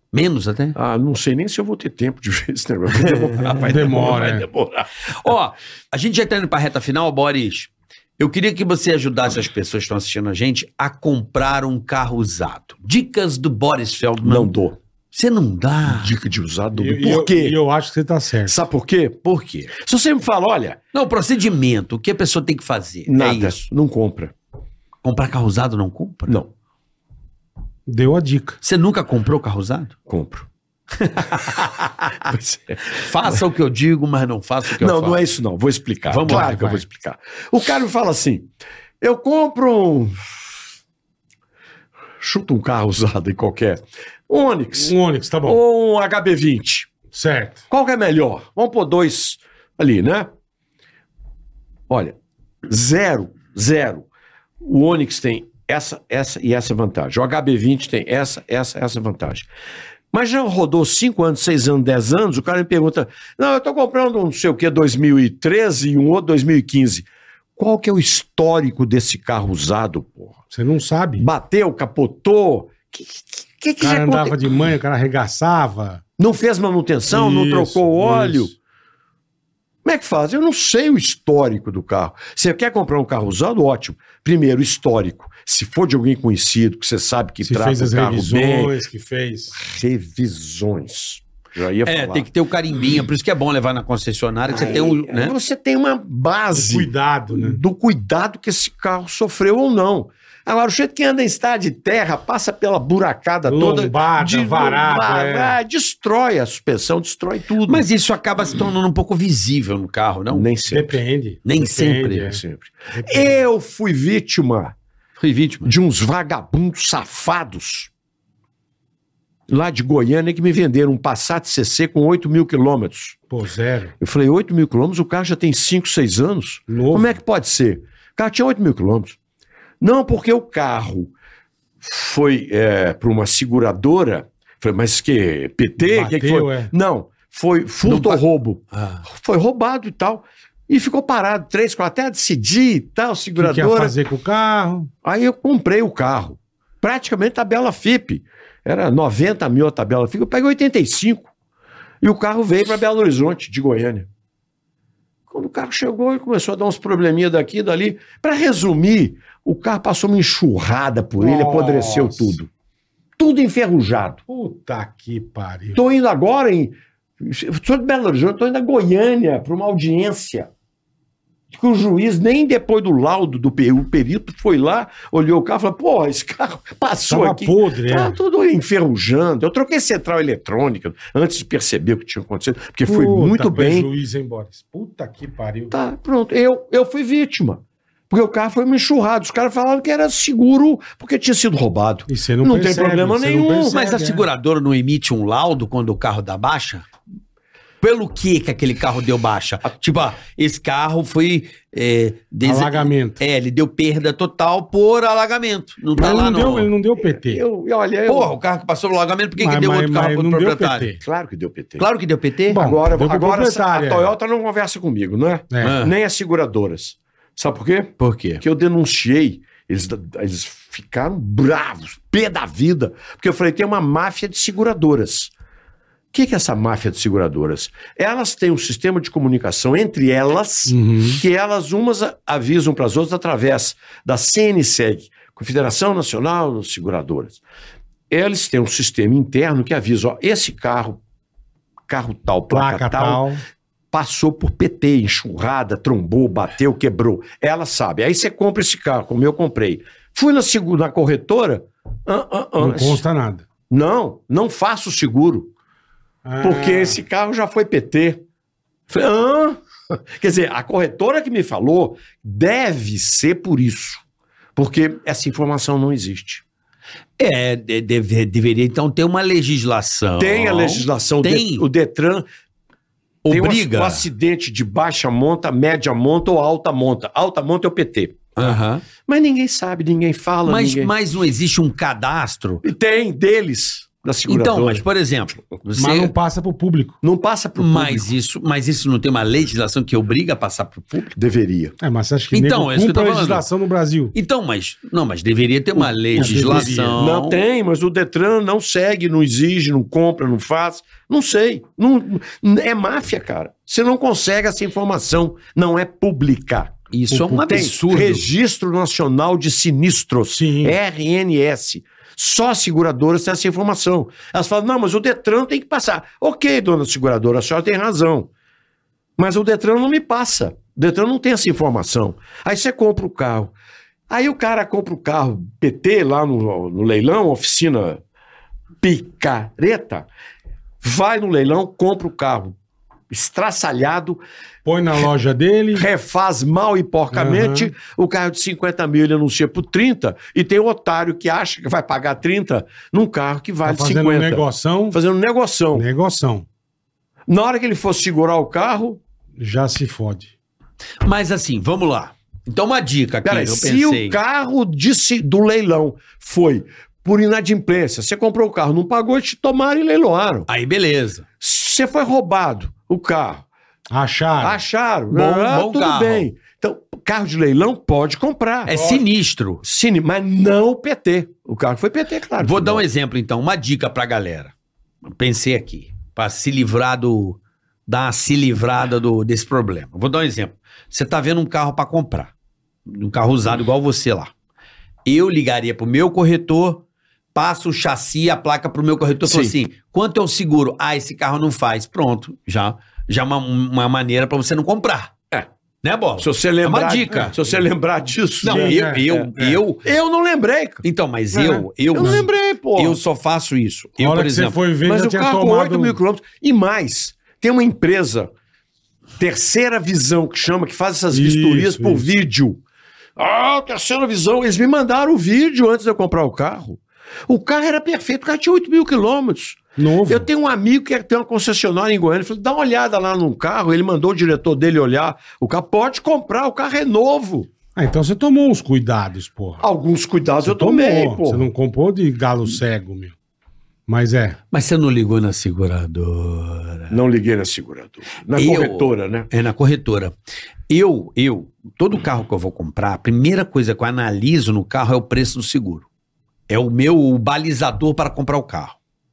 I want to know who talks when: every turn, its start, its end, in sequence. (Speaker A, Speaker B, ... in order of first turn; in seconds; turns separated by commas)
Speaker A: 0.1-0.8, Speaker B: 0.8-5.3, Speaker A: 3.3-3.6, Speaker C: 3.6-4.5, Speaker A: 5.2-14.5, Speaker B: 14.2-14.8, Speaker A: 15.1-16.1, Speaker B: 15.8-17.6, Speaker C: 16.8-18.6, Speaker B: 18.5-20.8, Speaker A: 19.2-19.7, Speaker A: 20.9-23.6, Speaker B: 23.1-24.3, Speaker A: 25.0-26.4, Speaker C: 27.9-28.6, Speaker A: 28.6-29.9, Speaker B: 30.1-30.5, Speaker A: 31.0-32.3, Speaker B: 32.2-33.4, Speaker A: 32.9-35.2, Speaker B: 34.7-38.5, Speaker A: 36.1-36.8, Speaker C: 36.3-36.5, Speaker B: 39.0-40.2, Speaker B: 42.2-46.9, Speaker C: 44.8-45.6, Speaker C: 47.1-47.6, Speaker B: 47.7-50.3, Speaker B: 51.9-54.1, Speaker B: 54.6-59.5, Speaker B: 60.1-70.4, Speaker C: 70.5-71.3, Speaker B: 71.2-74.4, Speaker C: 73.8-76.0, Speaker B: 76.2-78.5, Speaker C: 77.1-78.5, Speaker B: 79.8-88.8, Speaker C: 87.4-89.5, Speaker B: 89.5-92.3, Speaker A: 91.9-95.3, Speaker B: 94.5-107.9, Speaker C: 96.5-97.6, Speaker C: 103.5-105.6, Speaker A: 107.7-110.5, Speaker B: 110.3-111.0, Speaker C: 110.7-112.4, Speaker A: 111.5-112.4, Speaker B: 112.2-114.8, Speaker C: 112.9-113.4, Speaker A: 115.2-115.7, Speaker B: 115.6-117.9, Speaker B: 119.5-123.2, Speaker C: 123.3-123.9, Speaker B: 124.0-129.2, Speaker C: 126.7-127.1, Speaker B: 129.8-131.1, Speaker B: 131.8-143.9, Speaker C: 135.8-136.7, Speaker A: 137.8-139.1, Speaker C: 143.4-144.9, Speaker B: 145.0-151.3, Speaker B: 152.0-154.1, Speaker B: 155.3-162.5, Speaker C: 161.2-162.3, Speaker B: 163.2-164.2, Speaker C: 164.3-165.8, Speaker B: 165.8-170.5, Speaker B: 171.5-183.9, Speaker C: 177.1-178.2, Speaker C: 182.9-185.8, Speaker B: 185.7-193.8, Speaker C: 192.1-194.2, Speaker A: 193.7-196.9, Speaker A: 197.8-206.7, Speaker C: 202.4-203.2, Speaker C: 205.9-207.4, Speaker B: 207.0-208.3, Speaker A: 208.1-210.9, Speaker C: 209.4-211.0, Speaker B: 211.0-211.9, Speaker A: 211.8-212.6, Speaker C: 212.5-214.1, Speaker B: 212.5-225.3, Speaker A: 215.6-215.9, Speaker A: 218.0-218.4, Speaker B: 226.1-237.4, Speaker C: 230.7-231.2, Speaker B: 238.1-241.0, Speaker B: 241.9-243.3, Speaker C: 242.5-243.4, Speaker B: 243.9-253.0, Speaker C: 252.6-253.4, Speaker B: 253.7-255.5, Speaker C: 256.2-257.0, Speaker B: 256.4-258.2, Speaker B: 258.9-264.0, Speaker B: 264.6-266.4, Speaker A: 267.2-271.7, Speaker B: 270.2-272.2, Speaker A: 273.2-274.1, Speaker B: 273.3-280.9, Speaker A: 278.4-278.9, Speaker A: 280.5-282.6, Speaker B: 282.6-284.8, Speaker A: 284.3-286.1, Speaker C: 285.8-287.0, Speaker B: 287.0-288.1, Speaker A: 287.6-291.1, Speaker B: 291.2-291.8, Speaker C: 291.8-294.1, Speaker A: 292.3-293.4, Speaker A: 294.1-297.4, Speaker C: 296.1-297.0, Speaker B: 296.1-318.3, Speaker A: 306.9-308.3, Speaker C: 310.4-310.8, Speaker B: 319.2-323.5, Speaker B: 324.1-328.0, Speaker B: 328.8-330.1, Speaker B: 330.8-332.6, Speaker B: 333.1-334.2, Speaker C: 334.6-335.9, Speaker B: 335.7-345.9, Speaker C: 337.1-337.7, Speaker C: 343.6-345.0, Speaker C: 345.7-346.5, Speaker B: 347.3-349.0, Speaker C: 349.4-350.3, Speaker A: 351.0-354.2, Speaker B: 353.2-360.5, Speaker A: 360.5-361.3, Speaker B: 361.4-363.5, Speaker C: 363.9-364.6, Speaker B: 364.4-368.7, Speaker A: 365.1-366.3, Speaker A: 368.7-369.6, Speaker B: 369.6-372.9, Speaker A: 372.4-374.5, Speaker A: 375.1-382.3, Speaker A: 382.9-384.3, Speaker A: 385.1-386.8, Speaker A: 387.4-395.1, Speaker B: 389.2-389.6, Speaker A: 395.8-397.6, Speaker B: 396.2-399.3, Speaker A: 398.4-399.9, Speaker C: 398.4-399.6, Speaker B: 399.8-400.8, Speaker A: 400.8-404.6, Speaker C: 401.3-402.2, Speaker B: 401.9-403.0, Speaker C: 404.0-406.0, Speaker B: 404.8-408.3, Speaker B: 409.2-412.6, Speaker C: 411.1-412.1, Speaker B: 413.2-427.5, Speaker C: 419.8-420.3, Speaker C: 427.8-429.6, Speaker B: 429.6-431.5, Speaker C: 430.4-433.1, Speaker C: 433.9-434.4, Speaker A: 434.5-437.0, Speaker B: 436.9-439.3, Speaker A: 438.4-440.1, Speaker A: 440.7-445.9, Speaker A: 446.5-448.8